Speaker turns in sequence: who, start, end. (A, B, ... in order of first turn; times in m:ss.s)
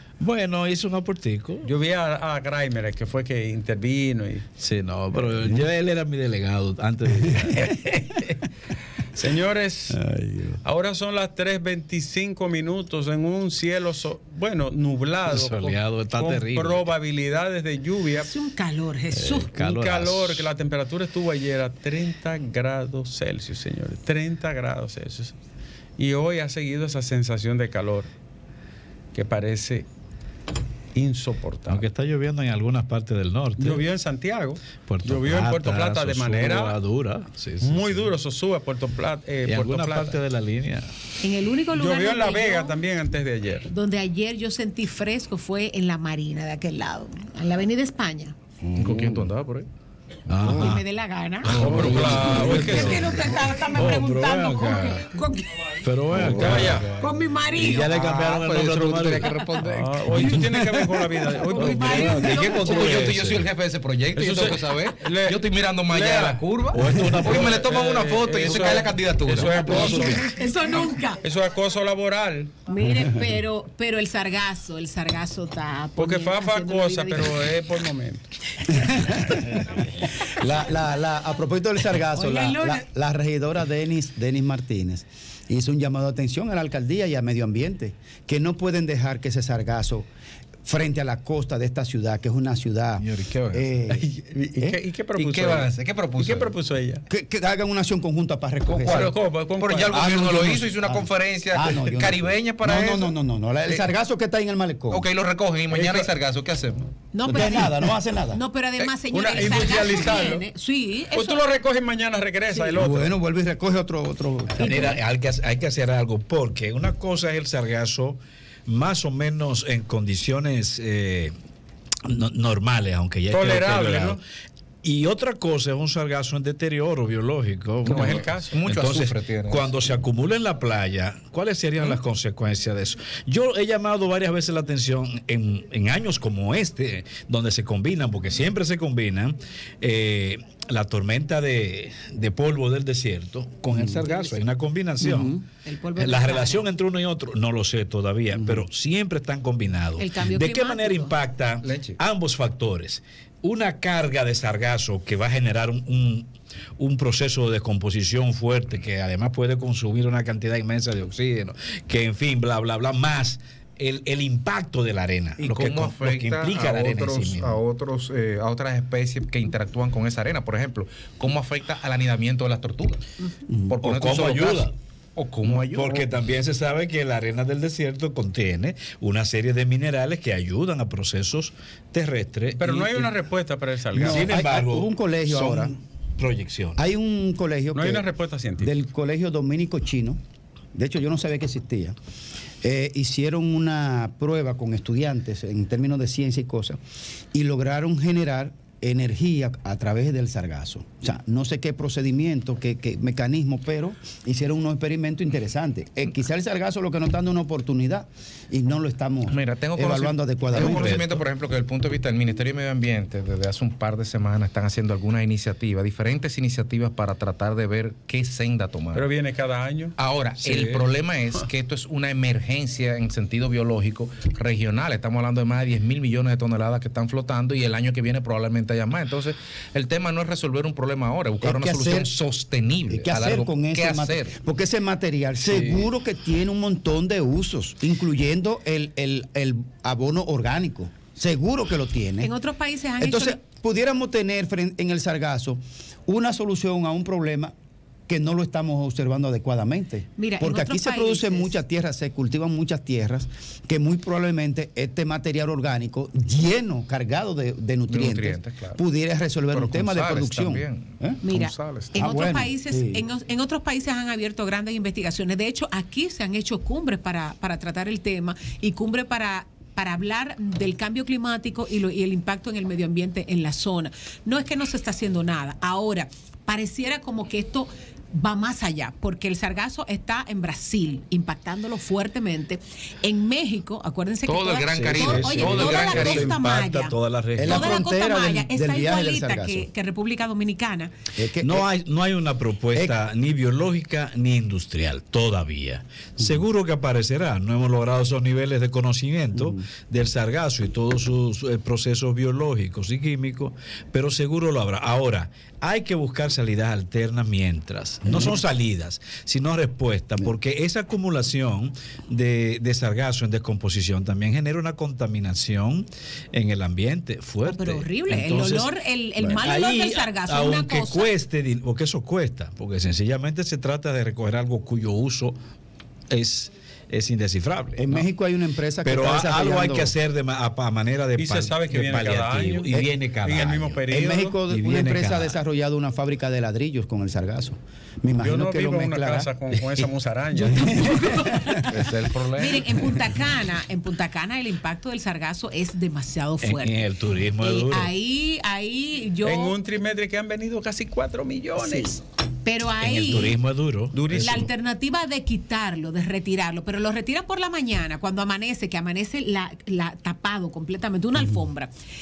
0:00.2-0:01.7 A
0:01.6-0:04.4 B
0:04.6-0:08.4 A
0:09.2-0:18.3 B
0:10.1-0:10.4 A
0:15.3-0:16.9 A
0:18.2-0:19.5 C
0:19.1-0:20.5 A
0:19.5-0:25.3 B
0:26.0-0:28.1 B
0:29.1-0:29.9 B
0:30.9-0:31.8 B
0:31.7-0:33.8 A
0:33.6-0:36.8 B
0:34.9-0:38.1 A
0:37.6-0:40.2 B
0:39.4-0:40.9 A
0:41.2-0:42.8 C
0:41.8-0:43.7 B
0:43.7-0:48.4 C
0:48.7-0:49.1 D
0:48.8-0:49.7 E
0:50.3-0:50.8 A
0:50.4-0:55.9 C
0:51.4-0:55.0 A
0:51.5-0:52.9 E
0:51.6-0:53.2 B
0:55.8-0:59.4 A
0:56.2-0:56.9 B
0:56.3-0:56.7 E
0:56.8-0:58.0 C
0:57.7-0:59.9 E
0:59.6-1:02.4 B
1:01.5-1:03.1 C
1:01.6-1:03.5 A
1:01.9-1:10.2 E
1:04.2-1:06.4 B
1:06.7-1:07.6 A
1:07.2-1:10.2 B
1:09.6-1:11.2 C
1:09.7-1:10.1 A
1:11.2-1:12.6 B
1:12.7-1:17.6 C
1:16.0-1:18.2 B
1:18.6-1:19.4 C
1:18.7-1:30.1 D
1:22.1-1:22.8 C
1:30.6-1:34.8 D
1:33.0-1:33.7 A
1:34.0-1:37.0 B
1:35.2-1:36.6 E
1:37.1-1:39.2 D
1:38.7-1:43.9 E
1:38.9-1:40.6 B
1:40.0-1:45.1 D
1:44.9-1:46.9 E
1:45.8-1:46.1 D
1:47.1-1:51.6 C
1:47.2-1:48.4 D
1:48.8-1:50.5 B
1:51.1-1:53.2 B
1:52.5-1:52.8 C
1:52.8-1:55.0 D
1:54.6-2:01.3 A
1:54.6-1:55.0 C
2:02.0-2:04.2 A
2:03.3-2:04.2 B
2:04.8-2:25.4 A
2:07.8-2:09.7 E
2:07.9-2:08.6 B
2:23.7-2:24.0 D
2:25.0-2:25.4 D
2:25.6-2:26.7 C
2:26.0-2:47.6 A
2:28.4-2:28.6 D
2:30.0-2:31.2 C
2:31.6-2:32.0 E
2:45.4-2:53.0 E
2:53.6-2:56.2 E
2:53.8-2:54.7 A
2:55.5-3:03.0 A
3:02.6-3:04.3 B
3:03.9-3:06.8 A
3:03.9-3:05.8 D
3:06.8-3:10.2 D
3:07.7-3:08.8 B
3:10.8-3:12.0 D
3:12.6-3:16.8 D
3:17.3-3:31.1 D
3:29.3-3:39.1 E
3:30.5-3:31.2 A
3:38.9-3:39.9 B
3:40.0-3:54.4 E
3:40.4-3:40.9 A
3:51.4-3:52.1 D
3:52.9-4:02.3 D
3:55.5-3:55.9 A
4:02.2-4:03.4 C
4:03.0-4:07.5 D
4:08.1-4:21.2 D
4:10.2-4:11.6 C
4:17.9-4:18.8 E
4:19.5-4:22.1 E
4:21.2-4:50.9 C
4:22.0-4:23.0 D
4:44.3-4:46.4 E
4:44.8-4:47.8 A
4:47.4-4:49.7 D
4:51.2-4:51.7 D
4:51.4-5:18.7 A
4:59.4-4:59.7 D
5:17.4-5:21.1 C
5:19.4-5:25.4 A
5:26.1-5:28.1 A
5:27.8-5:29.9 D
5:28.8-5:33.9 A
5:31.2-5:34.4 B
5:33.9-5:39.8 D
5:34.5-5:35.4 A
5:38.2-5:40.8 B
5:40.4-5:41.5 D
5:40.4-5:49.6 C
5:41.7-5:42.8 E
5:46.4-5:47.9 A
5:49.2-5:52.0 B
5:51.6-5:53.4 C
5:52.8-5:54.5 A
5:53.9-5:54.5 B
5:54.2-6:01.7 C